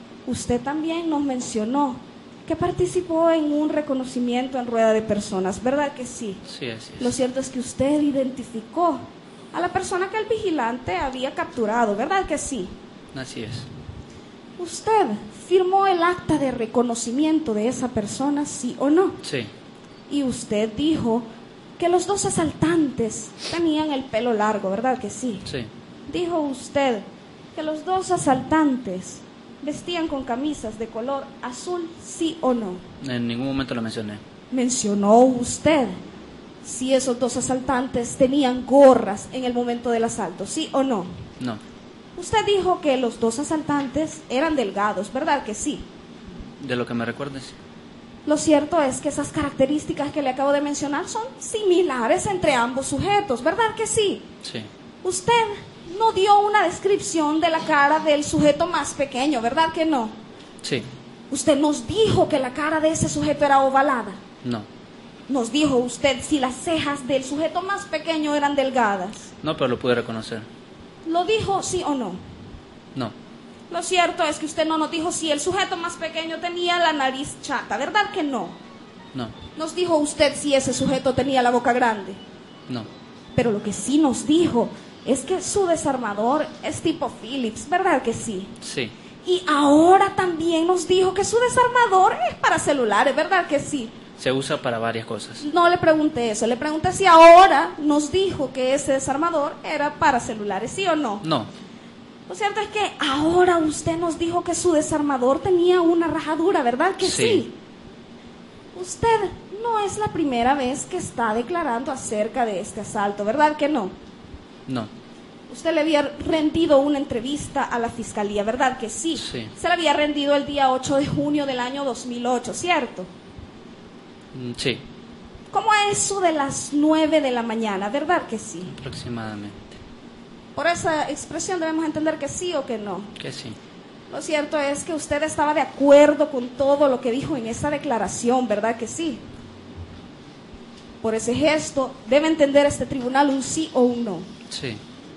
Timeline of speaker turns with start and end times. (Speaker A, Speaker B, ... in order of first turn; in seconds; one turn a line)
Speaker A: 0.2-6.4
Speaker B: 6.5-7.1
Speaker A: 7.0-12.7
Speaker B: 13.1-13.7
Speaker A: 14.6-19.2
Speaker B: 19.2-19.5
Speaker A: 20.1-21.3
Speaker A: 21.8-25.5
Speaker A: 26.1-32.8
Speaker B: 33.0-34.2
Speaker A: 34.5-36.0
Speaker A: 36.6-41.1
Speaker A: 42.2-45.9
Speaker B: 46.6-47.5
Speaker A: 48.2-54.3
Speaker B: 54.4-54.7
Speaker A: 55.0-60.2
Speaker A: 61.3-64.2
Speaker A: 65.3-69.3
Speaker B: 69.4-70.5
Speaker A: 71.0-72.2
Speaker A: 73.7-78.6
Speaker A: 79.6-82.2
Speaker A: 83.3-88.5
Speaker B: 88.6-88.9
Speaker A: 89.2-93.9
Speaker B: 94.2-95.4
Speaker A: 95.4-101.2
Speaker B: 101.2-101.5
Speaker A: 102.3-107.5
Speaker B: 107.0-107.4
Speaker A: 108.7-113.9
Speaker A: 115.5-123.1
Speaker B: 119.2-119.5
Speaker B: 124.3-124.8
Speaker A: 125.5-128.8
Speaker B: 128.7-129.8
Speaker A: 130.6-133.1
Speaker B: 133.2-133.6
Speaker A: 134.1-139.2
Speaker A: 141.0-144.3
Speaker B: 144.5-144.8